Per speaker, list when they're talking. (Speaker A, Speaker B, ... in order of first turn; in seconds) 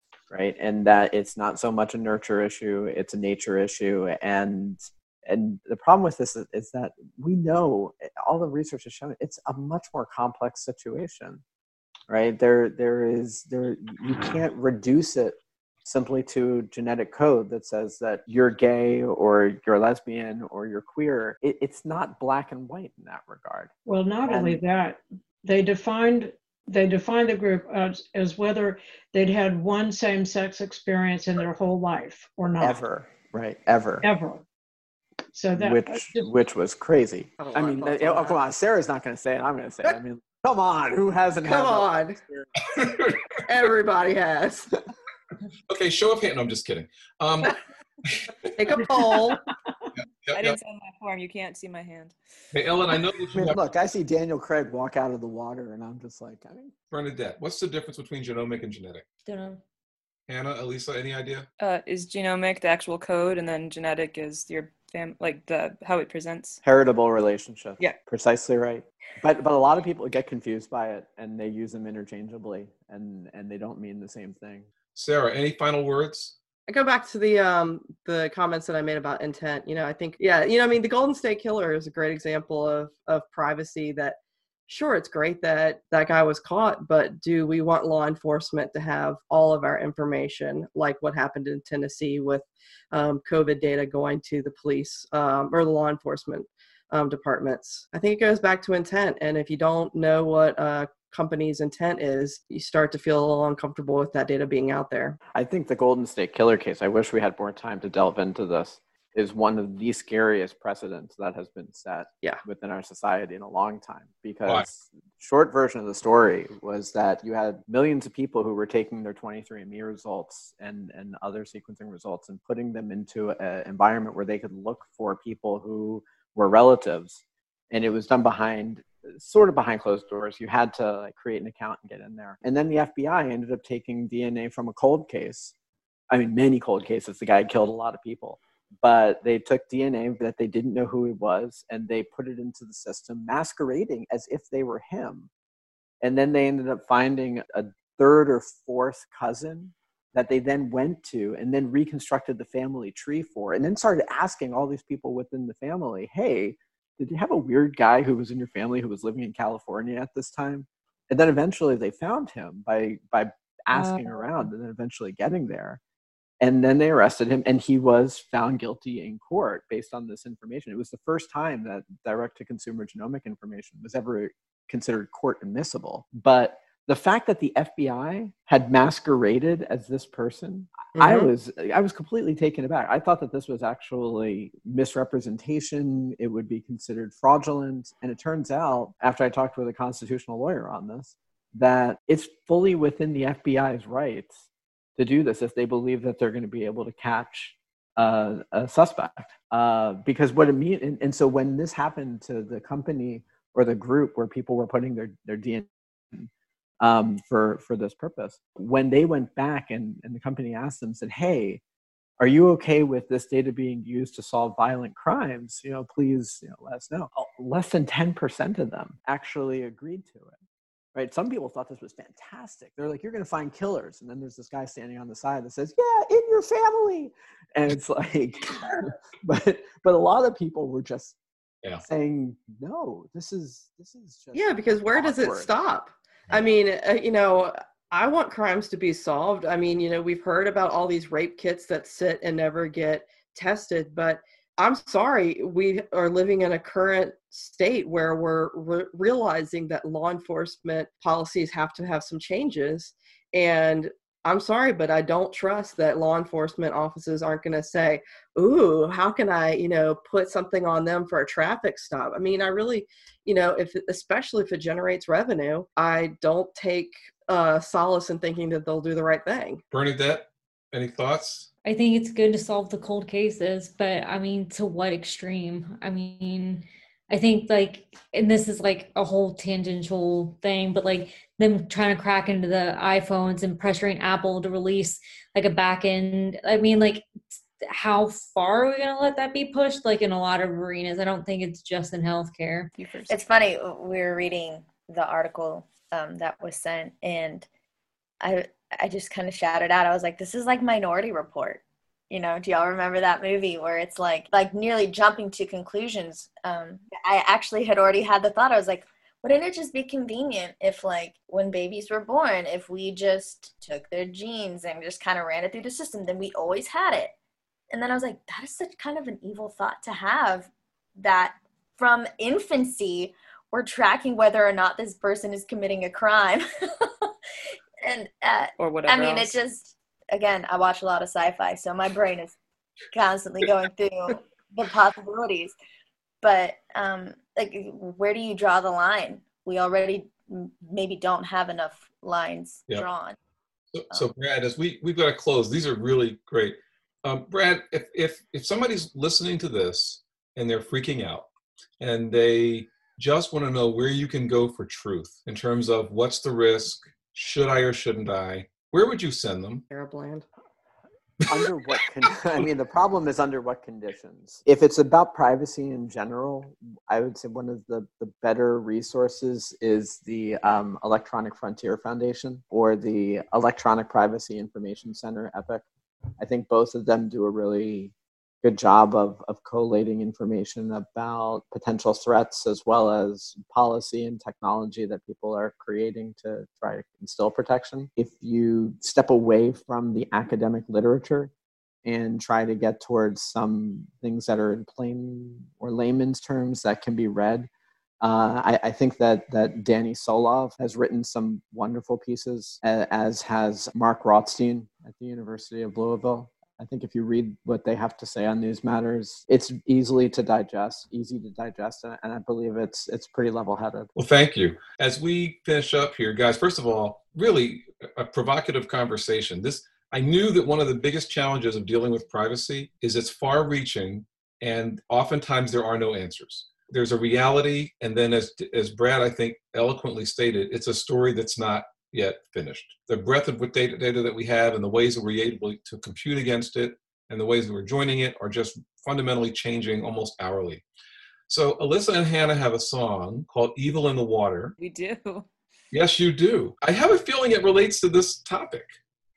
Speaker A: 0.3-11.4, 12.1-23.7, 24.3-24.6, 32.6-34.1, 35.5-42.5, 53.3-56.7, 66.6-74.7, 105.3-135.5, 136.1-145.3, 146.0-165.8, 166.4-194.4, 195.0-206.3, 206.8-211.6, 212.2-220.4, 220.9-231.2, 231.9-235.5, 361.3-375.6, 376.2-391.3, 391.8-397.5, 398.0-413.9
Speaker B: 23.9-32.8, 34.0-34.4, 35.3-36.3
Speaker C: 37.4-38.4, 41.5-42.2, 43.5-44.7, 48.6-49.4, 76.7-105.2, 180.9-181.3, 234.3-269.6, 359.7-360.3
Speaker D: 42.6-43.4, 45.7-48.2, 50.2-50.6, 52.5-53.6, 56.9-59.0, 60.3-61.5, 75.0-76.4, 269.7-271.5, 343.7-351.3, 351.8-359.6, 413.9-440.6, 441.3-444.6, 445.7-448.7
Speaker E: 50.3-52.1, 61.6-66.6, 292.8-293.1, 328.6-329.4, 444.6-445.3
Speaker F: 59.2-59.6, 163.7-164.2, 271.6-292.7
Speaker G: 293.1-297.5, 298.2-317.1, 317.7-327.1, 327.8-332.4, 332.9-335.6, 336.2-343.2